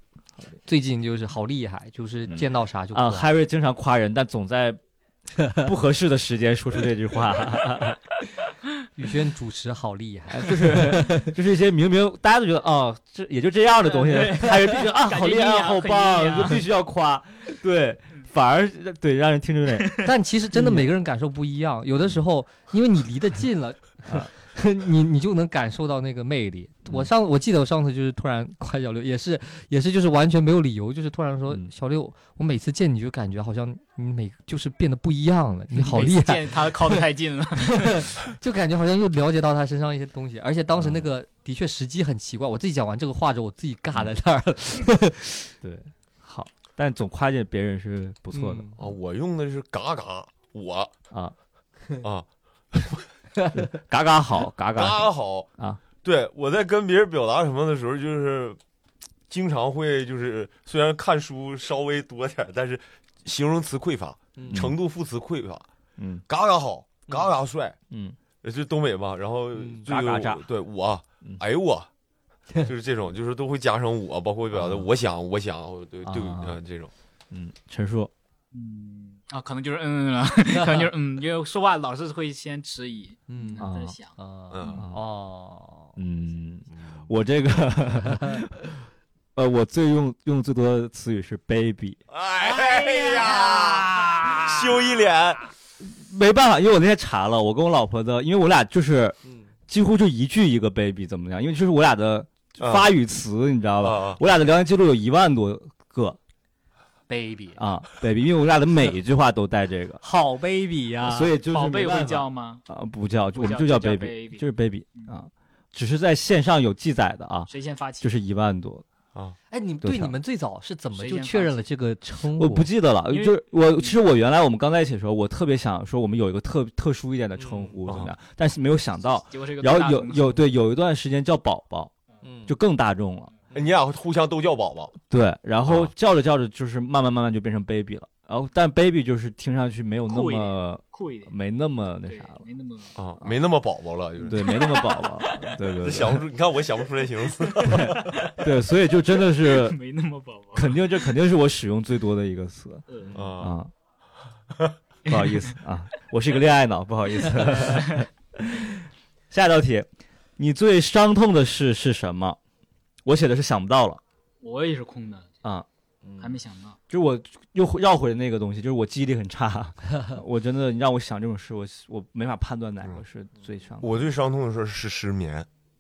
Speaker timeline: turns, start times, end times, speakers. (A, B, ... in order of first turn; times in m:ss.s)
0:00.6-0:03.3 A
0:02.3-0:04.8 B
0:05.5-0:08.0 B
0:09.0-0:11.3 A
0:10.3-0:20.9 B
0:13.8-0:16.7 C
0:20.0-0:37.0 A
0:35.8-0:38.1 C
0:37.7-0:45.5 A
0:40.8-0:41.0 B
0:45.6-0:48.7 B
0:48.3-0:48.8 A
0:48.8-0:50.9 D
0:52.0-0:53.1 D
0:53.6-0:55.1 B
0:54.7-0:55.5 D
0:56.0-0:58.6 D
0:59.3-1:05.7 D
1:04.4-1:04.7 A
1:04.5-1:04.8 B
1:06.0-1:06.2 B
1:06.3-1:07.8 D
1:07.9-1:08.2 B
1:08.4-1:11.9 D
1:09.8-1:10.4 B
1:12.6-1:16.9 D
1:14.6-1:14.8 B
1:16.0-1:16.6 B
1:17.3-1:18.1 B
1:18.5-1:24.1 C
1:23.3-1:26.0 A
1:23.6-1:24.0 B
1:24.5-1:24.8 D
1:24.7-1:25.0 B
1:26.0-1:32.0 B
1:32.1-1:35.4 D
1:32.6-1:34.5 C
1:35.8-1:46.2 B
1:42.6-1:42.9 D
1:43.8-1:44.2 D
1:47.1-1:47.6 A
1:47.6-1:50.0 B
1:50.0-1:51.3 A
1:51.0-1:58.8 B
1:51.4-1:52.6 C
1:53.4-1:54.4 C
1:57.5-1:58.2 C
1:59.5-2:02.7 A
1:59.8-2:00.2 B
2:01.0-2:01.6 C
2:02.4-2:11.9 B
2:03.1-2:03.9 C
2:07.4-2:07.7 A
2:07.9-2:08.1 D
2:09.3-2:10.4 C
2:12.2-2:12.5 A
2:12.5-2:13.3 B
2:13.5-2:15.0 D
2:15.1-2:22.4 B
2:15.6-2:15.9 D
2:20.1-2:21.4 C
2:22.0-2:23.0 C
2:23.0-2:24.6 D
2:24.2-2:25.6 C
2:24.2-2:26.2 B
2:25.8-2:28.2 D
2:27.3-2:28.5 C
2:27.6-2:29.8 B
2:29.2-2:31.1 C
2:30.6-2:33.7 B
2:32.9-2:33.2 C
2:33.1-2:33.6 D
2:35.0-2:35.6 C
2:35.1-2:42.4 B
2:37.3-2:38.0 C
2:43.0-2:44.0 B
2:44.4-2:45.3 C
2:46.2-2:46.8 C
2:46.9-2:54.0 B
2:53.8-2:55.5 D